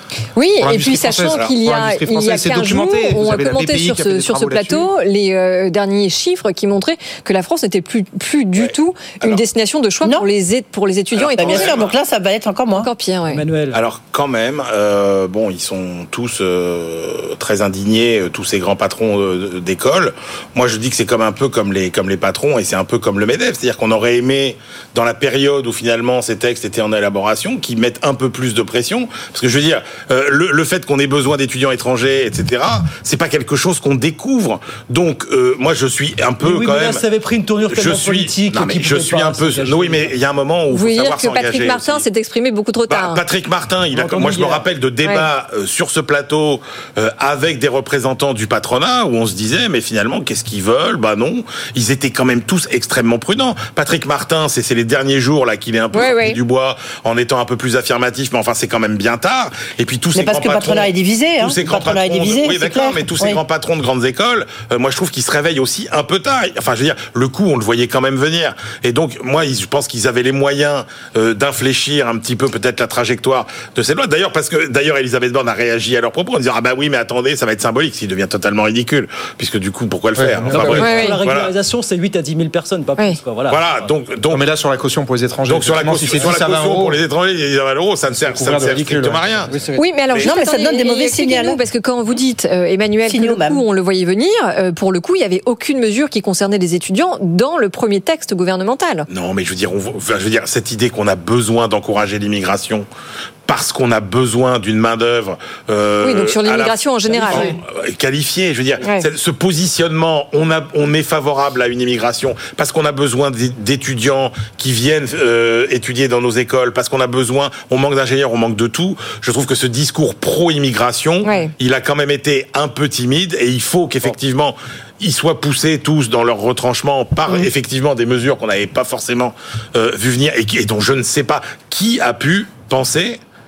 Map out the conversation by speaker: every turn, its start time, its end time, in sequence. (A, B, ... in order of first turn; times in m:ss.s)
0:00.4-0:11.7 A
0:00.6-0:04.9 B
0:08.6-0:09.4 C
0:11.1-0:12.0 C
0:11.4-0:12.9 D
0:12.8-0:13.4 A
0:13.3-0:13.8 E
0:13.7-0:37.0 C
0:36.4-0:40.1 E
0:37.7-0:42.1 C
0:40.7-0:43.2 A
0:42.9-1:21.5 C
0:43.9-0:44.6 E
0:55.9-0:56.4 A
1:00.2-1:03.4 D
1:20.2-1:20.8 B
1:20.5-1:23.9 E
1:20.8-1:21.2 A
1:23.5-1:24.5 C
1:24.3-1:27.0 B
1:25.5-1:29.5 C
1:28.1-1:29.8 B
1:29.8-1:39.1 A
1:30.1-1:30.4 C
1:30.2-1:31.6 D
1:33.1-1:33.6 D
1:39.1-1:42.9 C
1:43.5-2:13.2 C
1:46.0-1:47.6 A
1:48.8-1:49.1 A
2:01.2-2:01.5 A